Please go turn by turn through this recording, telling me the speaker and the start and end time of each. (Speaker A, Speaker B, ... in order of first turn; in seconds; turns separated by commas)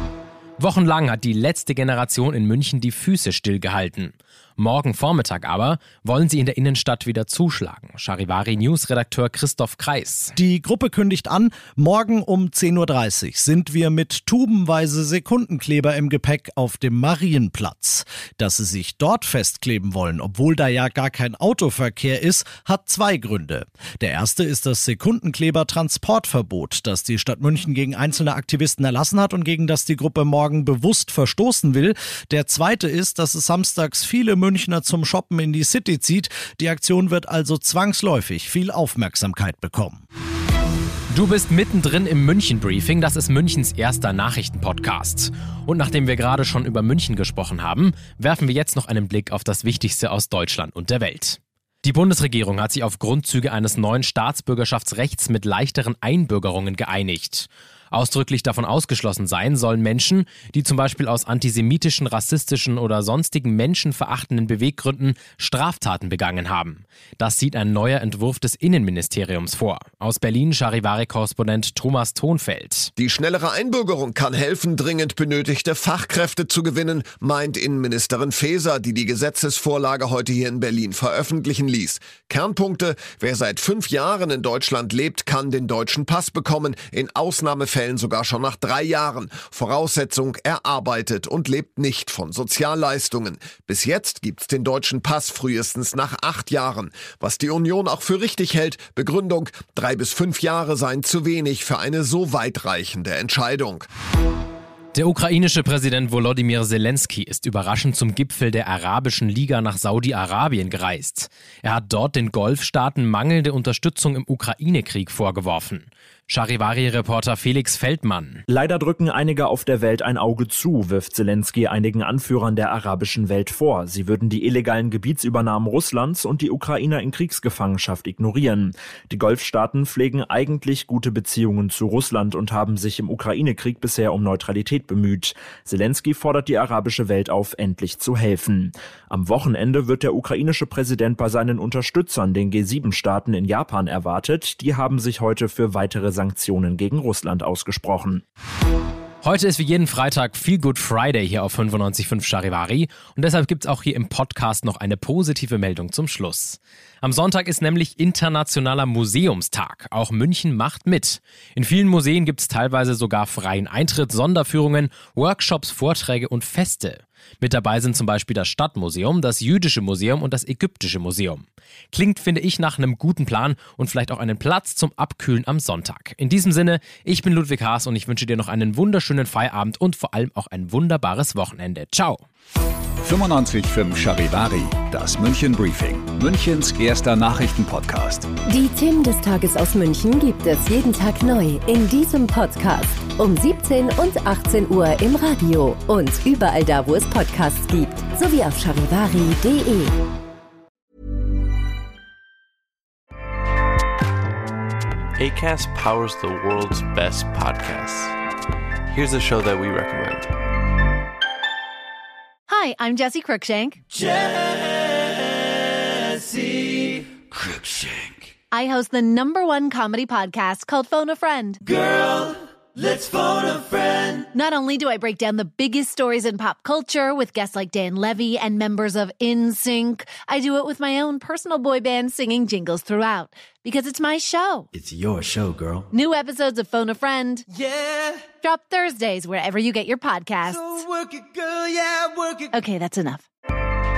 Speaker A: 0.6-10.3, Speaker B: 10.4-40.0, Speaker A: 41.1-72.9, Speaker C: 73.0-103.9, Speaker A: 104.9-118.4, Speaker D: 118.5-148.2, Speaker A: 149.2-182.2, Speaker E: 183.0-188.3, Speaker F: 188.4-199.9, Speaker G: 205.2-208.2, Speaker G: 208.9-210.3, Speaker H: 212.5-213.8, Speaker H: 218.5-221.6, Speaker I: 221.7-224.2, Speaker H: 224.3-234.7, Speaker I: 234.9-235.8, Speaker H: 235.9-237.4, Speaker I: 237.6-238.2, Speaker H: 238.4-240.8, Speaker I: 240.5-242.5, Speaker H: 242.5-243.2